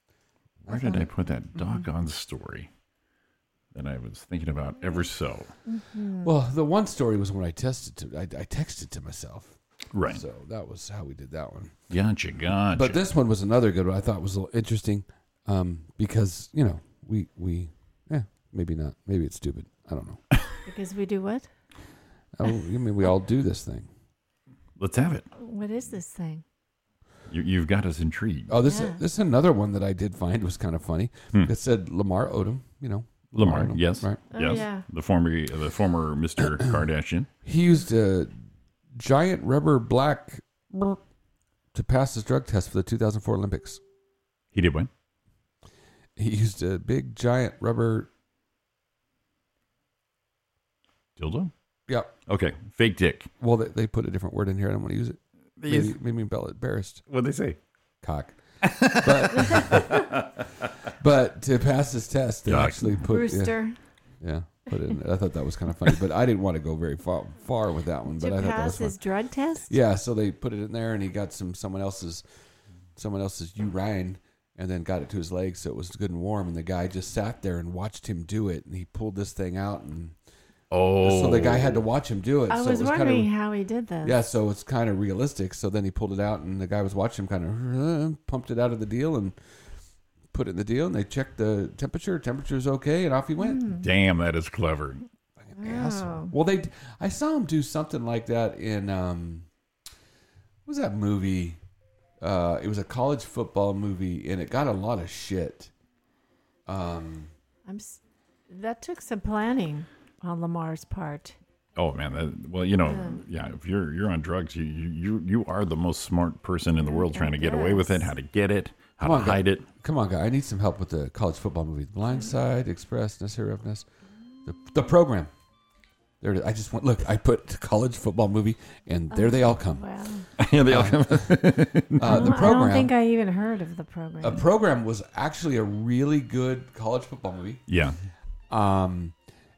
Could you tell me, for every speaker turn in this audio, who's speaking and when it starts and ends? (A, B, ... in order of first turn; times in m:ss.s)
0:00.7-0:02.7 A
0:00.7-0:01.0 B
0:00.7-0:01.0 C
0:03.7-0:05.5 A
0:05.7-0:06.3 C
0:06.2-0:11.7 B
0:09.9-0:10.2 A
0:11.9-0:13.0 A
0:12.7-0:20.2 B
0:20.7-0:21.5 C
0:22.4-0:23.9 B
0:24.8-0:25.2 A
0:25.4-0:26.4 C
0:27.3-0:28.5 A
0:28.5-0:34.2 B
0:28.7-0:29.0 C
0:33.4-0:37.3 A
0:34.3-0:34.8 C
0:37.4-0:38.3 B
0:39.0-0:41.0 B
0:41.7-0:43.8 B
0:44.5-0:44.9 A
0:46.2-0:48.1 B
0:51.2-0:51.5 A
0:52.3-0:53.3 A
0:53.4-0:57.0 B
0:55.6-0:56.0 A
0:57.1-0:57.6 A
0:58.0-0:58.4 B
0:58.6-1:00.2 A
0:58.9-1:00.0 B
1:01.0-1:03.6 B
1:02.5-1:03.0 A
1:03.1-1:03.8 C
1:04.2-1:09.0 B
1:08.2-1:09.7 C
1:09.7-1:12.2 B
1:13.0-1:20.2 B
1:20.7-1:21.8 A
1:21.0-1:23.3 B
1:22.5-1:24.2 C
1:24.0-1:29.4 B
1:30.3-1:33.6 B
1:33.4-1:33.8 C
1:33.8-1:35.0 A
1:35.4-1:39.5 B
1:35.6-1:36.3 C
1:40.7-1:41.6 B
1:42.2-1:45.7 B
1:46.7-1:47.3 B
1:47.7-1:51.4 C
1:51.8-1:59.6 A
1:52.8-1:53.2 C
1:56.8-1:58.1 C
1:59.0-2:03.9 B
2:04.5-2:05.3 B
2:06.2-2:09.8 B
2:09.1-2:10.3 C
2:10.4-2:12.5 A
2:10.7-2:12.9 B
2:12.0-2:14.4 C
2:14.2-2:17.6 B
2:17.7-2:18.0 A
2:18.5-2:19.1 B